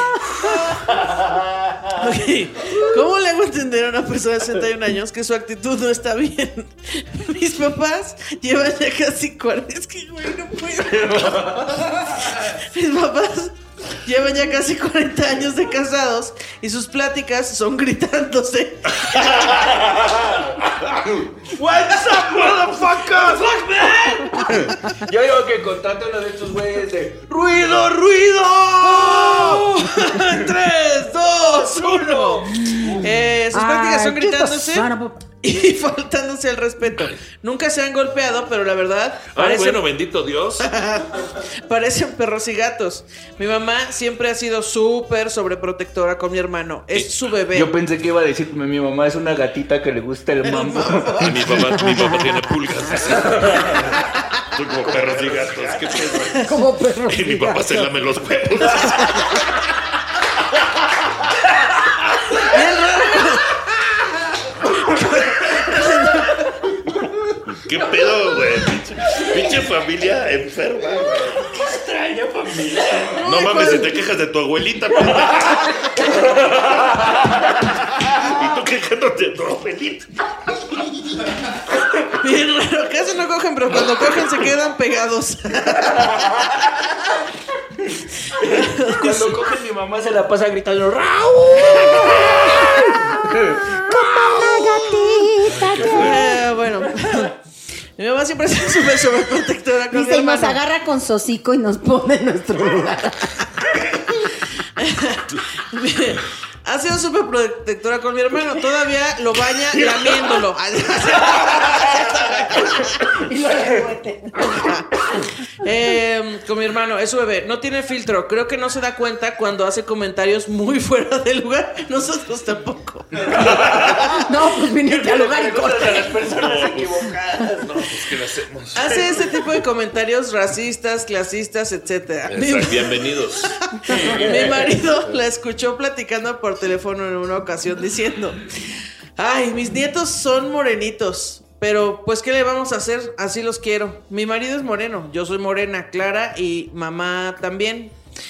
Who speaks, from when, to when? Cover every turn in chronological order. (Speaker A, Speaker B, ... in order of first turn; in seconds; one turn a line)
Speaker A: 0.4-2.0
Speaker B: 2.0-19.3
Speaker A: 11.2-12.3
Speaker A: 19.1-30.3
Speaker B: 28.9-34.9
Speaker A: 31.4-33.1
Speaker C: 32.9-35.3
Speaker B: 35.4-39.8
Speaker D: 39.3-40.7
Speaker B: 40.6-47.7
Speaker A: 47.5-51.8
Speaker B: 50.4-51.4
Speaker D: 51.2-54.0
Speaker A: 53.1-54.0
Speaker D: 54.5-56.6
Speaker A: 54.8-56.3
Speaker C: 56.4-57.9
Speaker D: 57.1-59.4
Speaker A: 58.6-59.1
Speaker B: 62.3-63.6
Speaker B: 64.7-66.5
Speaker D: 67.5-71.5
Speaker A: 71.4-73.6
Speaker B: 73.2-73.9
Speaker D: 73.2-77.3
Speaker A: 76.3-77.2
Speaker D: 78.0-80.1
Speaker B: 82.1-86.3
Speaker A: 85.9-86.6
Speaker A: 88.3-95.3
Speaker B: 88.4-89.4
Speaker C: 91.7-96.3
Speaker D: 95.5-96.2
Speaker B: 95.9-97.3
Speaker B: 98.0-100.6
Speaker C: 99.9-103.5
Speaker B: 104.8-113.0
Speaker C: 113.1-114.8
Speaker B: 115.6-124.0
Speaker A: 123.2-127.9
Speaker C: 124.1-126.2
Speaker D: 126.3-127.0
Speaker D: 127.6-129.0
Speaker B: 128.7-138.5
Speaker D: 132.3-133.6
Speaker A: 133.9-134.8
Speaker B: 139.2-147.9